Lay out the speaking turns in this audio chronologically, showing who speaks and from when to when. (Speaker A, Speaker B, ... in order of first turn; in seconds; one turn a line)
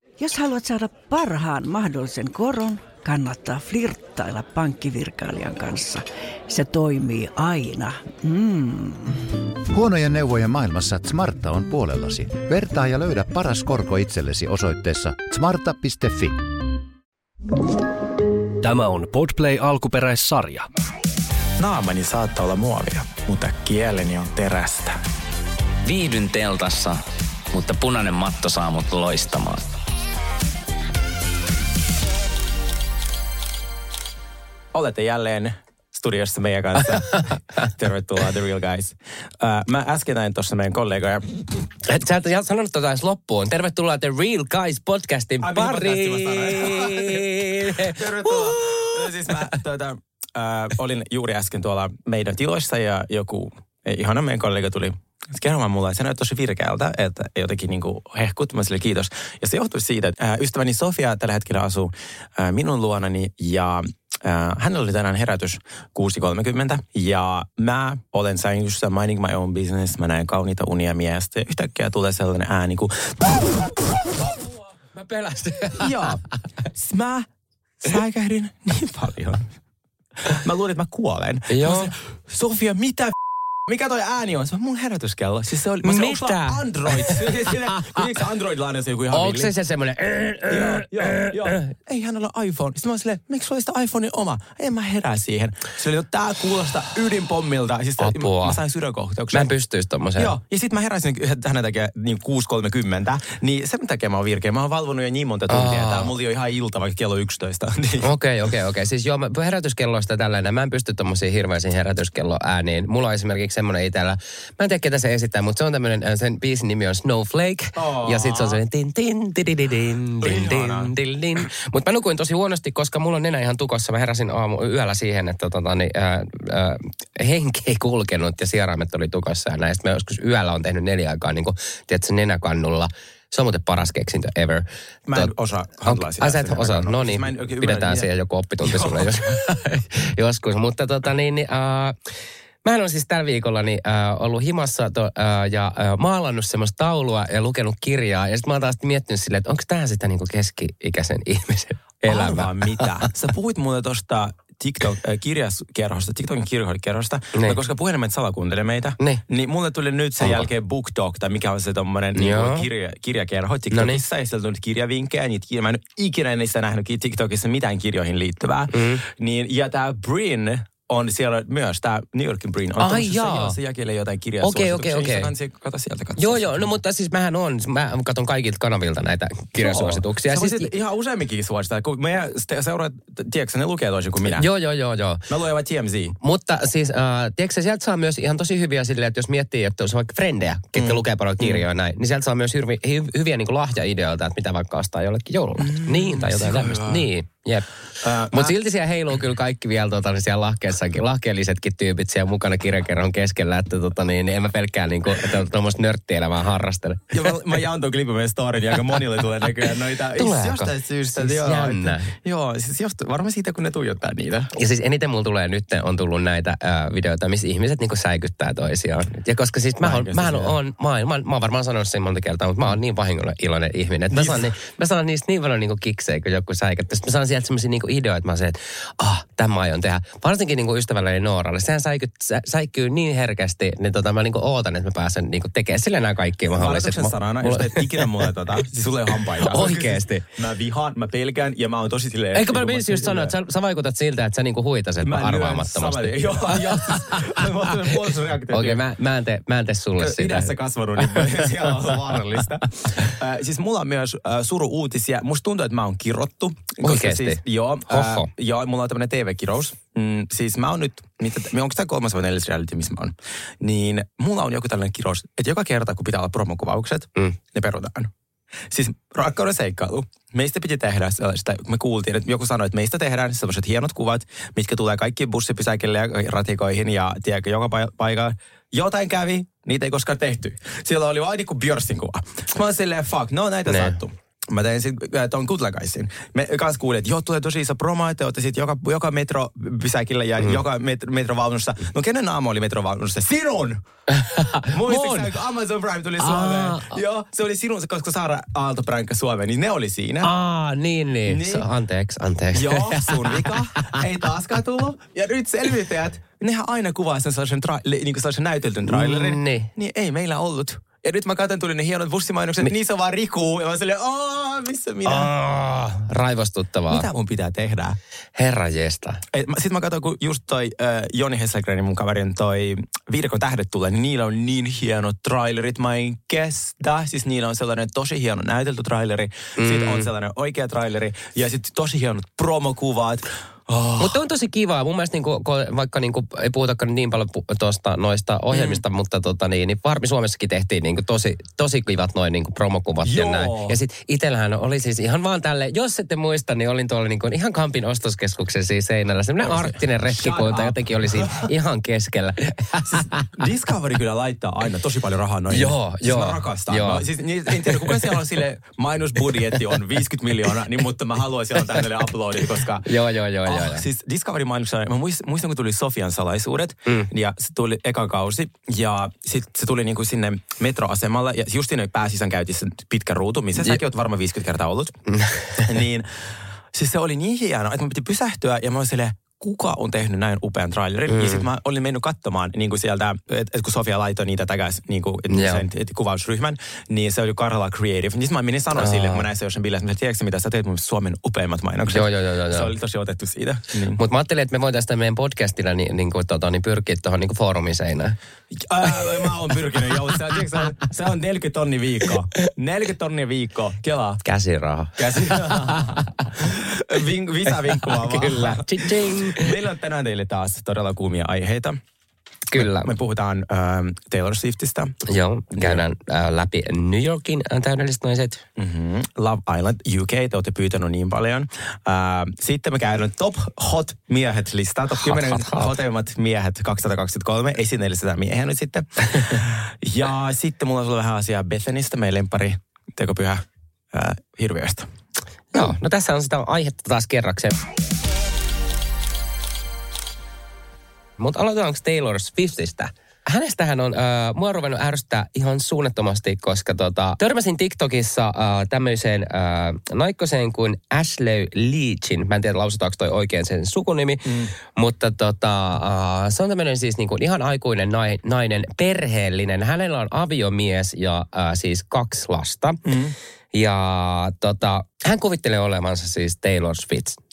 Speaker A: 0.2-9.2
Speaker B: 9.7-16.4
Speaker C: 18.6-20.7
Speaker D: 21.6-25.0
Speaker E: 25.8-27.0
Speaker E: 27.5-29.6
Speaker D: 34.7-41.2
Speaker F: 41.8-49.5
Speaker D: 45.4-73.8
Speaker F: 74.2-76.0
Speaker D: 75.8-76.2
Speaker D: 76.7-77.3
Speaker D: 77.8-79.5
Speaker D: 80.2-89.5
Speaker F: 81.5-81.9
Speaker F: 85.8-88.0
Speaker F: 89.1-91.7
Speaker D: 90.5-99.5
Speaker F: 98.0-98.6
Speaker F: 99.3-100.3
Speaker D: 100.2-108.1
Speaker F: 105.5-106.1
Speaker F: 108.0-135.3
Speaker D: 117.7-118.6
Speaker D: 120.2-120.9
Speaker D: 135.1-138.1
Speaker F: 135.8-141.9
Speaker D: 138.6-139.1
Speaker F: 142.6-152.9
Speaker D: 152.0-176.7
Speaker F: 160.2-160.5
Speaker F: 162.1-162.7
Speaker F: 163.7-164.0
Speaker F: 168.7-169.0
Speaker F: 172.8-173.6
Speaker F: 174.4-175.3
Speaker F: 176.2-180.7
Speaker D: 179.6-184.5
Speaker F: 184.3-185.2
Speaker D: 185.3-186.2
Speaker F: 186.2-197.7
Speaker D: 190.8-191.6
Speaker D: 195.6-197.1
Speaker D: 198.0-198.5
Speaker F: 198.3-207.2
Speaker D: 207.1-214.5
Speaker F: 210.2-212.1
Speaker F: 214.5-238.3
Speaker D: 219.8-220.5
Speaker D: 224.1-224.5
Speaker D: 236.5-243.3
Speaker F: 239.4-240.3
Speaker F: 242.3-247.4
Speaker D: 245.0-248.8
Speaker F: 248.5-251.6
Speaker D: 250.0-268.1
Speaker F: 256.8-258.3
Speaker D: 268.7-293.8
Speaker F: 283.7-284.0
Speaker F: 294.1-295.3
Speaker D: 294.7-300.3
Speaker F: 296.2-297.0
Speaker F: 300.2-303.9
Speaker D: 301.3-301.6
Speaker D: 302.5-315.3
Speaker F: 308.9-309.7
Speaker F: 315.0-317.1
Speaker D: 316.9-318.0
Speaker F: 318.4-319.2
Speaker D: 319.3-334.1
Speaker F: 329.6-330.1
Speaker F: 334.0-353.3
Speaker D: 338.5-338.8
Speaker D: 343.0-343.8
Speaker D: 349.4-351.4
Speaker D: 352.9-362.9
Speaker F: 355.5-358.2
Speaker F: 362.8-363.8
Speaker D: 363.4-375.0
Speaker F: 375.1-375.7
Speaker D: 375.5-376.1
Speaker D: 376.7-394.0
Speaker F: 381.1-381.5
Speaker F: 385.3-385.6
Speaker F: 388.8-389.2
Speaker F: 391.9-392.7
Speaker F: 394.0-398.1
Speaker D: 398.5-404.2
Speaker F: 404.2-406.0
Speaker D: 405.0-411.8
Speaker F: 407.5-409.5
Speaker F: 412.5-412.9
Speaker D: 412.5-414.9
Speaker F: 415.1-418.4
Speaker D: 415.5-415.8
Speaker D: 418.6-434.9
Speaker F: 425.0-425.8
Speaker F: 435.5-437.6
Speaker F: 441.2-462.8
Speaker D: 454.2-454.5
Speaker D: 462.9-463.1
Speaker F: 463.5-467.2